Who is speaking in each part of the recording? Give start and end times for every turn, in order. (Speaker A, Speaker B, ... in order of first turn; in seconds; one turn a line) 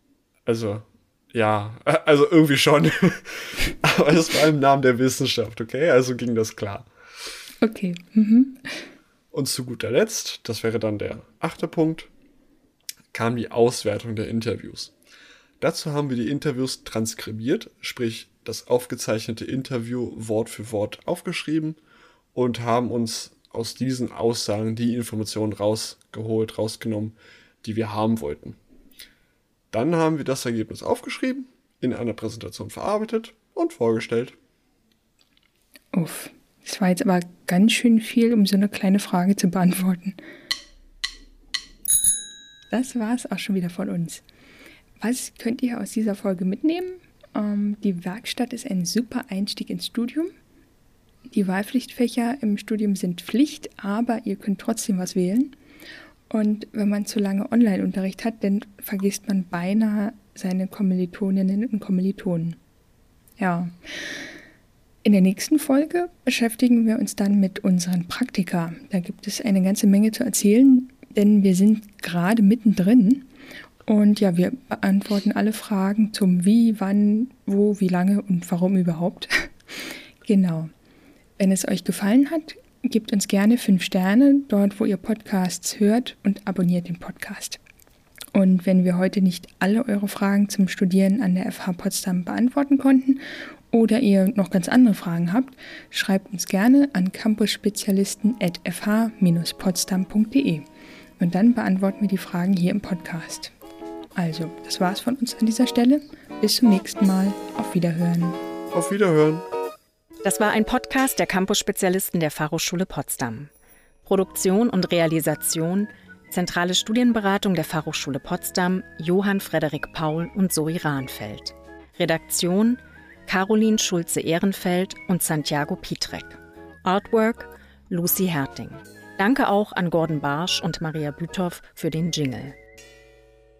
Speaker A: 0.5-6.9
Speaker B: 7.6-8.8
Speaker A: 9.3-12.1
Speaker A: 13.1-14.9
Speaker A: 15.6-21.8
Speaker A: 22.3-28.6
Speaker A: 29.7-34.4
Speaker B: 35.9-40.1
Speaker B: 42.7-44.2
Speaker B: 45.0-50.3
Speaker B: 51.3-55.5
Speaker B: 56.3-62.6
Speaker B: 63.4-63.7
Speaker B: 65.0-73.3
Speaker B: 73.9-80.7
Speaker B: 81.4-87.6
Speaker B: 88.3-100.7
Speaker B: 101.2-103.5
Speaker B: 104.2-108.4
Speaker A: 108.7-109.5
Speaker C: 110.2-113.5
Speaker C: 114.0-132.6